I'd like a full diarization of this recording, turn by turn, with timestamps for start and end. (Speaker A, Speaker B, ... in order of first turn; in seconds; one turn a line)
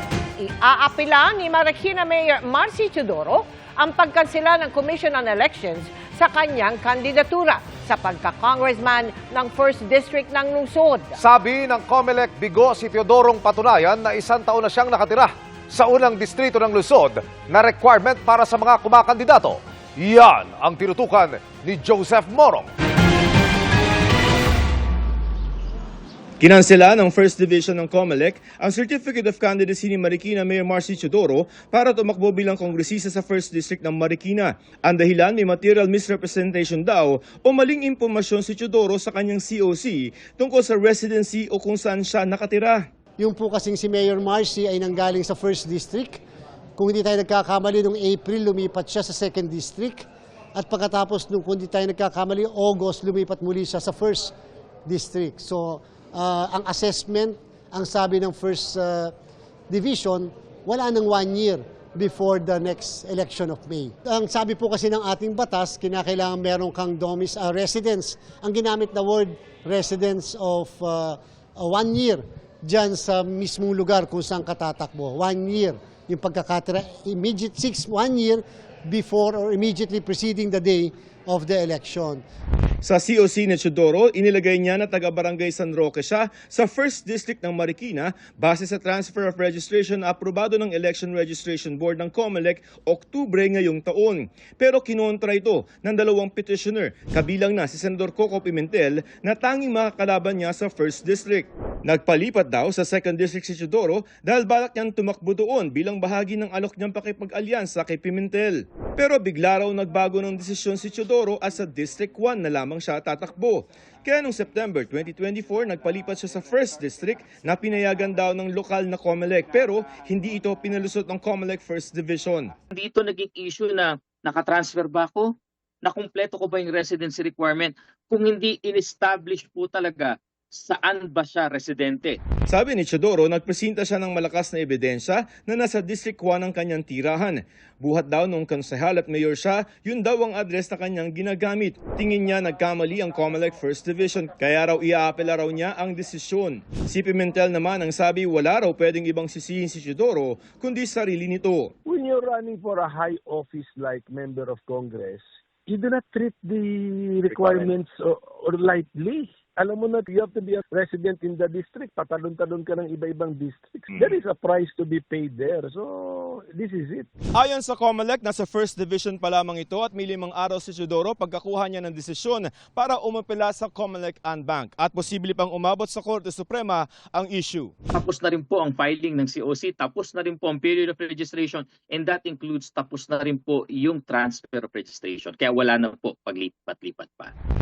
Speaker A: 0.4-11.2
Speaker B: 11.2-22.7
Speaker C: 26.4-42.9
Speaker D: 43.2-46.2
Speaker D: 46.8-54.3
Speaker D: 54.9-59.1
Speaker D: 59.7-82.2
Speaker C: 82.8-122.5
Speaker E: 122.7-125.3
Speaker E: 125.8-132.2
Speaker C: 132.5-151.7
Speaker F: 151.8-167.1
Speaker C: 157.3-157.7
Speaker C: 167.3-177.7
Speaker E: 177.9-187.3